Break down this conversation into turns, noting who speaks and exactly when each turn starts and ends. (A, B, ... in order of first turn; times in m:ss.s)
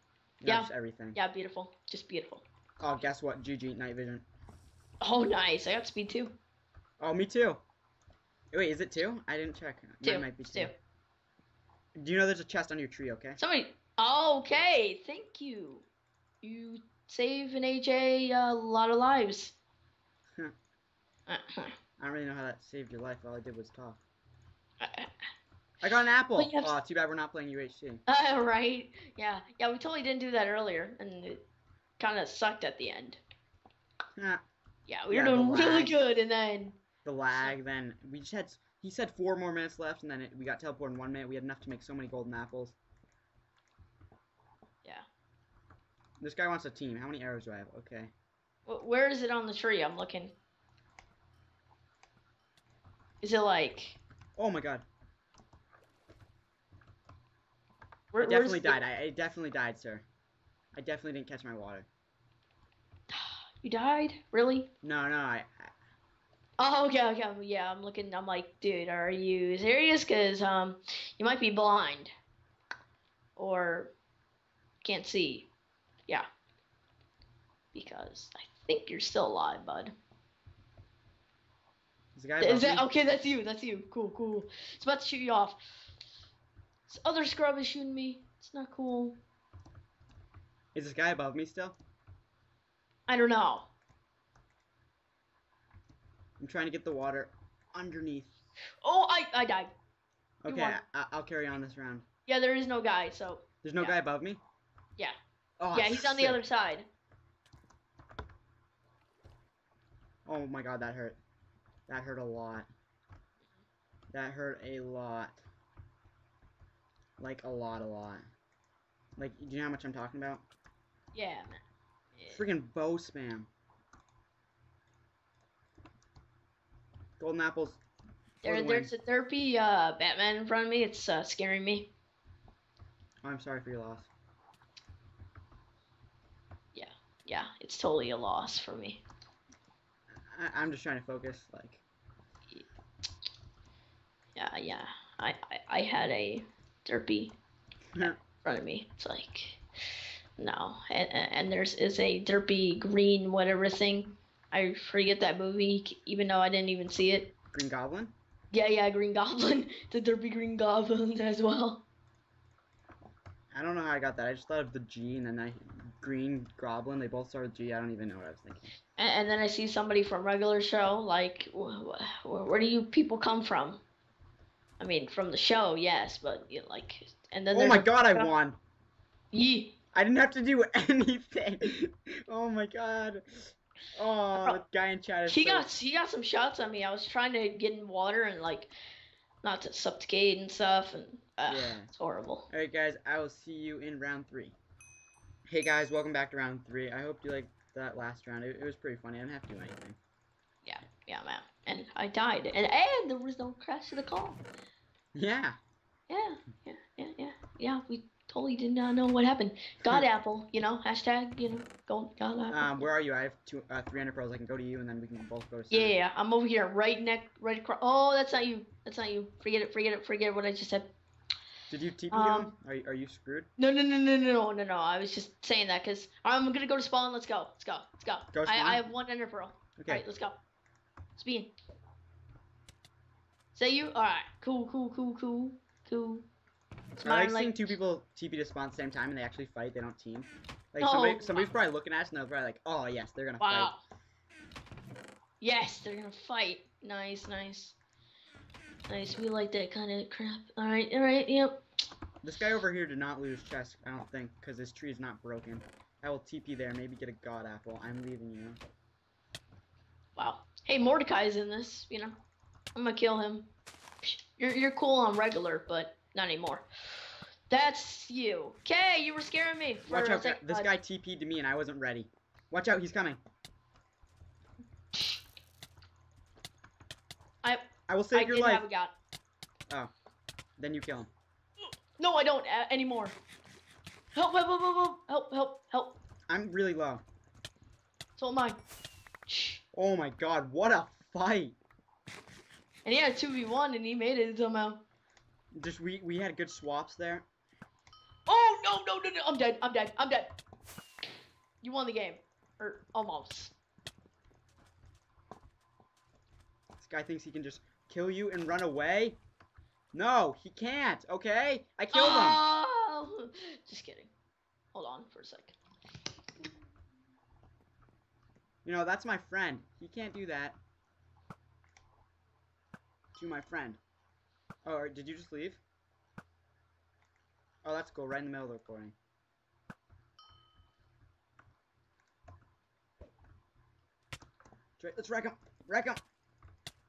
0:00.4-0:01.2 A
0:00.4-0:02.4 B
0:02.8-0:04.2 A
0:05.0-0:06.4 B
0:07.0-0:07.6 A
0:08.5-0:10.7 A
0:10.0-0:10.7 B
0:12.0-0:13.4 A
0:13.4-0:15.9 B
0:16.4-0:19.6 B
0:21.3-0:21.8 B
0:22.0-0:24.0 A
0:24.8-0:25.1 B
0:25.8-0:28.0 A
0:26.4-0:26.8 B
0:28.1-0:31.4 B
0:32.0-0:33.2 B
0:34.2-0:34.4 A
0:34.9-0:36.8 B
0:35.1-0:36.0 A
0:37.0-0:42.8 A
0:46.2-0:48.1 A
0:48.7-0:50.3 B
0:53.2-0:54.0 B
0:54.4-0:54.9 A
0:58.1-0:58.8 B
0:58.2-1:00.0 A
1:00.7-1:01.9 A
1:03.1-1:04.7 B
1:04.8-1:05.7 A
1:06.6-1:12.1 B
1:13.4-1:13.9 B
1:14.8-1:15.5 B
1:17.7-1:19.9 B
1:22.2-1:22.9 A
1:22.4-1:25.6 B
1:26.9-1:29.2 B
1:30.7-1:31.8 A
1:33.1-1:33.7 B
1:36.4-1:38.3 A
1:38.8-1:39.7 B
1:40.4-1:42.1 A
1:40.5-1:40.8 B
1:42.3-1:44.0 B
1:43.6-1:44.4 A
1:45.6-1:46.4 A
1:45.7-1:46.9 B
1:50.2-1:51.2 A
1:51.9-1:52.7 A
1:54.1-1:55.4 A
1:57.2-1:58.2 A
1:59.2-2:00.4 A
2:01.1-2:01.6 B
2:02.1-2:02.4 B
2:02.3-2:03.5 A
2:07.2-2:07.8 A
2:08.4-2:08.9 A
2:08.4-2:11.9 B
2:13.2-2:14.1 A
2:16.7-2:19.0 B
2:20.3-2:21.8 A
2:24.3-2:27.3 B
2:28.0-2:29.6 B
2:30.4-2:37.3 B
2:37.5-2:38.1 A
2:38.5-2:41.8 B
2:43.5-2:48.7 A
2:49.0-2:53.8 B
2:54.8-2:58.3 B
2:57.5-2:58.6 A
2:59.3-2:59.8 B
2:59.9-3:05.7 A
3:04.3-3:04.6 B
3:05.3-3:08.7 B
3:09.4-3:12.5 B
3:11.5-3:11.9 A
3:12.5-3:14.6 A
3:15.5-3:20.0 A
3:20.6-3:24.4 B
3:25.1-3:25.6 A
3:26.1-3:32.9 B
3:32.5-3:36.0 A
3:35.7-3:40.9 B
3:41.7-3:43.5 A
3:42.1-3:42.5 B
3:43.6-3:50.4 B
3:48.3-3:48.9 A
3:49.8-3:50.0 A
3:51.2-3:51.5 B
3:53.5-3:56.2 B
3:57.0-3:57.7 B
3:57.0-4:03.7 A
4:00.8-4:01.5 B
4:03.4-4:03.8 B
4:05.4-4:07.8 B
4:08.9-4:11.6 B
4:12.2-4:18.6 A
4:20.2-4:22.2 B
4:22.8-4:23.5 B
4:24.0-4:30.7 B
4:29.9-4:33.2 A
4:37.4-4:38.9 B
4:37.9-4:38.6 A
4:40.6-4:41.1 A
4:42.0-4:43.2 B
4:44.1-4:46.0 B
4:46.3-4:47.0 A
4:48.2-4:48.6 B
4:49.3-4:49.6 B
4:49.7-4:51.6 A
4:52.8-4:54.8 B
4:55.5-4:57.3 A
4:58.3-5:00.3 B
5:01.6-5:03.6 B
5:06.8-5:09.2 A
5:09.9-5:12.4 A
5:11.9-5:14.1 B
5:14.7-5:15.6 B
5:18.6-5:20.6 A
5:23.2-5:23.8 A
5:24.6-5:25.6 A
5:27.6-5:28.9 A
5:34.8-5:36.0 A